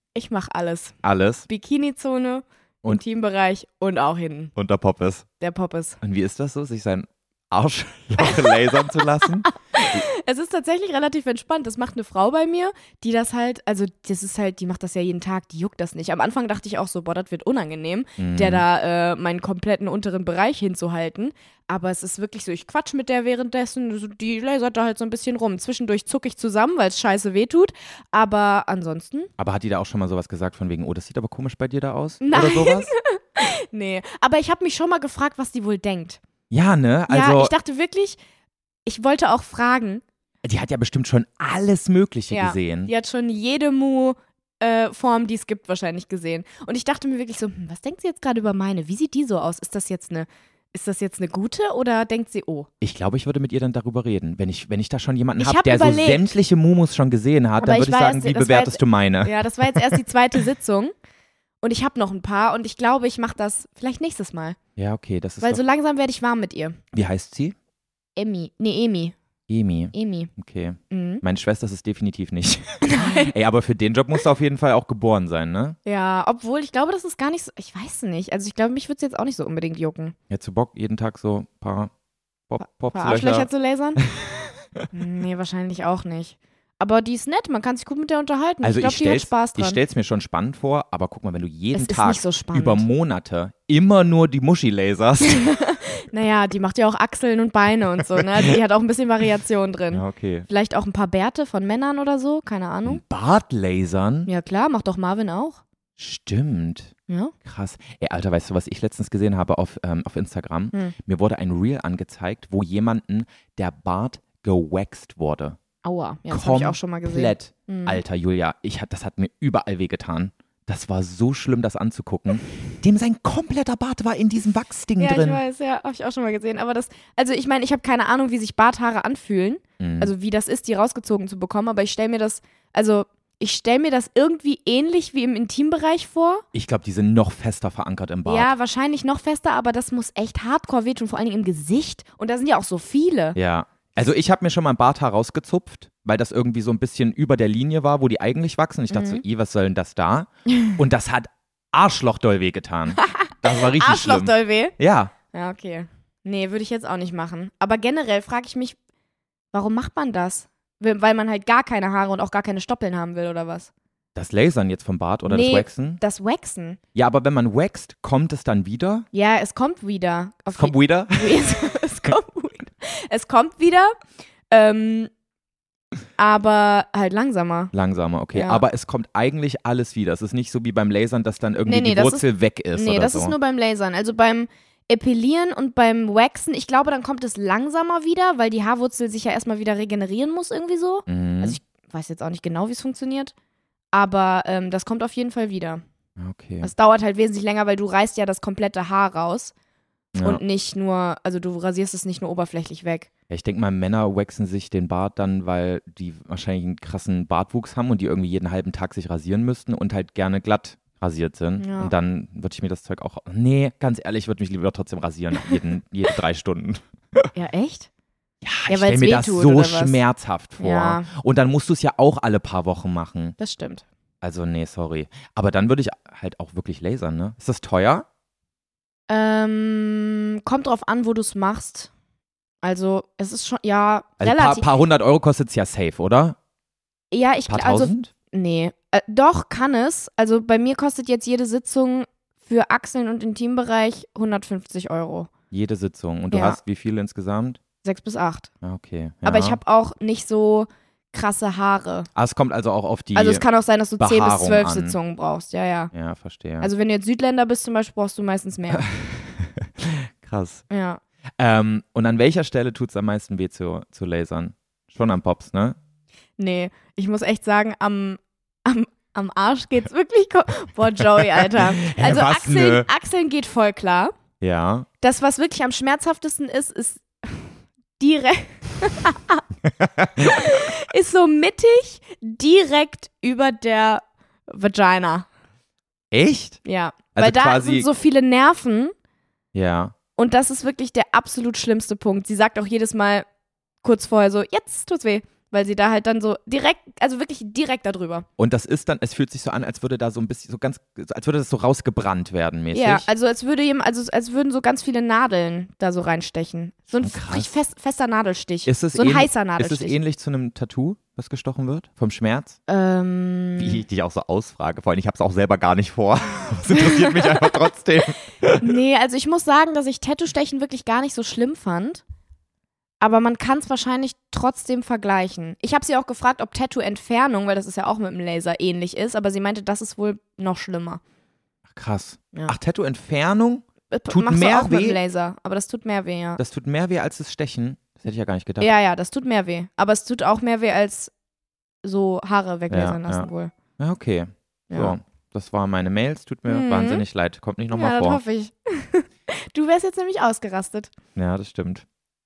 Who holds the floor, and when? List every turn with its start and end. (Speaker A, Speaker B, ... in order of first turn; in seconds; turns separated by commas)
Speaker A: 0.1-1.0, Speaker B: 1.0-1.5, Speaker A: 1.5-4.5, Speaker B: 4.6-5.3, Speaker A: 5.4-6.0, Speaker B: 6.0-10.0, Speaker A: 9.8-29.3, Speaker B: 18.2-18.6, Speaker B: 29.4-32.9, Speaker A: 32.2-36.2, Speaker B: 36.5-37.5, Speaker A: 37.1-38.2, Speaker A: 38.9-40.0, Speaker B: 40.4-42.9, Speaker A: 42.3-52.7, Speaker B: 52.8-60.0, Speaker A: 55.4-56.3, Speaker A: 57.6-60.9, Speaker A: 61.6-64.6, Speaker B: 64.8-65.6, Speaker A: 65.4-66.8, Speaker B: 66.9-67.5, Speaker A: 68.2-69.2, Speaker B: 69.5-75.8, Speaker A: 69.9-70.3, Speaker A: 70.9-71.2, Speaker A: 72.8-73.3, Speaker A: 75.8-80.2, Speaker B: 80.3-81.9, Speaker B: 82.5-84.8, Speaker A: 82.9-84.0, Speaker A: 84.9-89.8, Speaker B: 88.6-95.5, Speaker A: 91.7-92.9, Speaker A: 95.2-103.0, Speaker B: 99.9-100.5, Speaker B: 102.9-104.3, Speaker A: 104.3-105.6, Speaker B: 106.0-115.6, Speaker A: 107.1-107.3, Speaker A: 115.8-118.0, Speaker B: 116.3-125.4, Speaker A: 125.0-136.4, Speaker B: 129.8-130.1, Speaker B: 136.5-138.5, Speaker A: 138.3-143.4, Speaker B: 143.4-155.1, Speaker A: 148.9-149.2, Speaker A: 153.0-154.8, Speaker A: 155.3-158.8, Speaker A: 159.5-163.7, Speaker B: 164.2-166.0, Speaker A: 165.3-166.8, Speaker B: 166.9-169.1, Speaker A: 169.1-173.9, Speaker B: 170.6-171.6, Speaker A: 174.5-175.1, Speaker A: 176.2-177.7, Speaker B: 177.7-183.3, Speaker A: 178.3-178.6, Speaker A: 181.7-193.3, Speaker B: 191.1-191.6, Speaker A: 193.9-195.8, Speaker B: 196.2-196.7, Speaker A: 196.6-199.5, Speaker B: 200.1-200.4, Speaker A: 200.2-203.1, Speaker B: 203.3-217.3, Speaker A: 211.6-211.9, Speaker A: 217.3-217.9, Speaker B: 218.4-223.3, Speaker A: 218.7-220.0, Speaker A: 220.6-221.1, Speaker A: 223.4-223.8, Speaker B: 224.2-228.1, Speaker A: 229.1-231.9, Speaker A: 232.6-234.7, Speaker B: 234.2-236.4, Speaker A: 237.1-245.3, Speaker B: 237.5-238.1, Speaker B: 245.5-247.6, Speaker A: 246.3-246.6, Speaker A: 247.8-248.5, Speaker B: 248.6-249.6, Speaker A: 249.2-252.1, Speaker B: 252.2-253.4, Speaker A: 253.2-255.9, Speaker B: 254.0-255.0, Speaker B: 255.9-256.7, Speaker A: 256.6-258.9, Speaker B: 258.7-260.6, Speaker A: 260.7-261.0, Speaker B: 261.4-265.8, Speaker A: 266.4-274.1, Speaker B: 271.4-272.9, Speaker B: 274.4-274.9, Speaker A: 275.0-279.4, Speaker B: 279.8-280.6, Speaker A: 280.2-285.3, Speaker B: 286.1-286.6, Speaker A: 286.6-288.9, Speaker B: 287.1-287.9, Speaker B: 289.5-289.9, Speaker A: 290.2-293.3, Speaker A: 293.8-298.3, Speaker B: 298.4-303.1, Speaker A: 302.7-310.0, Speaker B: 307.0-307.5, Speaker B: 308.7-312.6, Speaker A: 312.7-313.8, Speaker B: 313.6-318.7, Speaker A: 316.7-317.5, Speaker A: 318.6-322.0, Speaker A: 323.0-331.0, Speaker B: 331.7-335.0, Speaker A: 333.9-336.4, Speaker B: 336.4-338.7, Speaker A: 338.6-341.1, Speaker A: 341.8-343.5, Speaker B: 342.7-343.3, Speaker B: 343.8-348.2, Speaker A: 344.7-344.9, Speaker A: 346.5-347.0, Speaker A: 347.7-350.9, Speaker B: 351.2-351.9